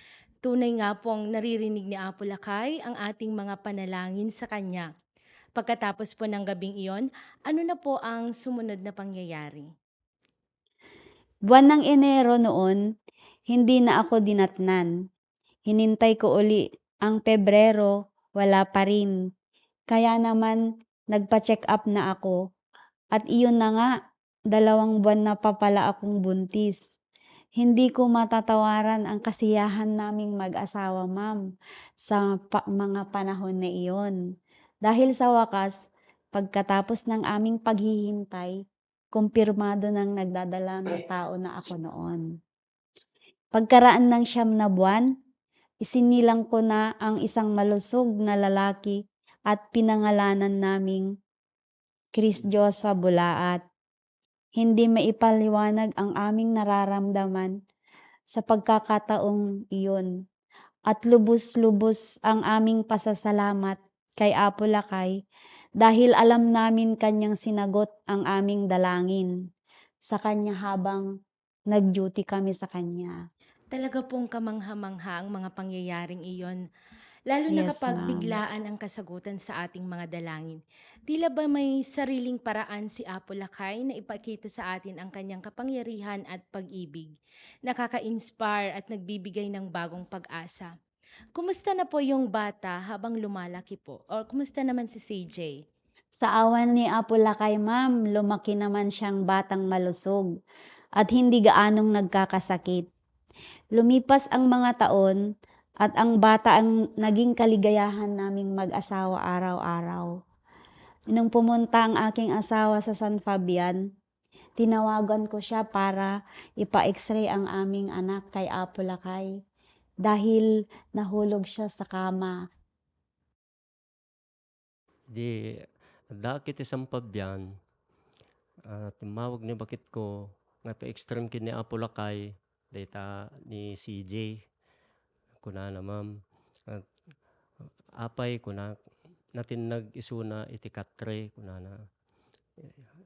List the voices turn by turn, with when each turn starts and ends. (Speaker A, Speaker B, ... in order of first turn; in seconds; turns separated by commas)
Speaker A: 0.4-4.9, Speaker A: 5.6-9.7, Speaker B: 11.5-12.8, Speaker B: 13.5-14.9, Speaker B: 15.7-19.2, Speaker B: 19.9-22.4, Speaker B: 23.1-23.9, Speaker B: 24.5-26.9, Speaker B: 27.6-31.4, Speaker B: 32.0-34.1, Speaker B: 34.9-35.8, Speaker B: 36.3-38.5, Speaker B: 39.1-42.2, Speaker B: 43.5-45.1, Speaker B: 45.9-49.0, Speaker B: 49.5-51.1, Speaker B: 52.1-53.6, Speaker B: 54.6-57.5, Speaker B: 58.3-60.1, Speaker B: 60.9-65.2, Speaker B: 65.8-69.3, Speaker B: 70.1-71.1, Speaker B: 71.7-73.2, Speaker A: 73.7-76.6, Speaker A: 77.3-87.1, Speaker B: 77.5-78.3, Speaker A: 87.6-90.7, Speaker A: 91.3-95.6, Speaker B: 96.2-100.3, Speaker B: 101.0-102.9, Speaker B: 103.8-105.2, Speaker B: 105.8-110.1, Speaker B: 111.1-113.8, Speaker B: 114.6-119.3, Speaker B: 120.0-122.4, Speaker C: 126.2-127.4, Speaker C: 128.7-130.1, Speaker C: 130.6-132.2, Speaker C: 132.7-134.3, Speaker C: 135.4-136.1, Speaker C: 138.0-138.7, Speaker C: 139.4-141.8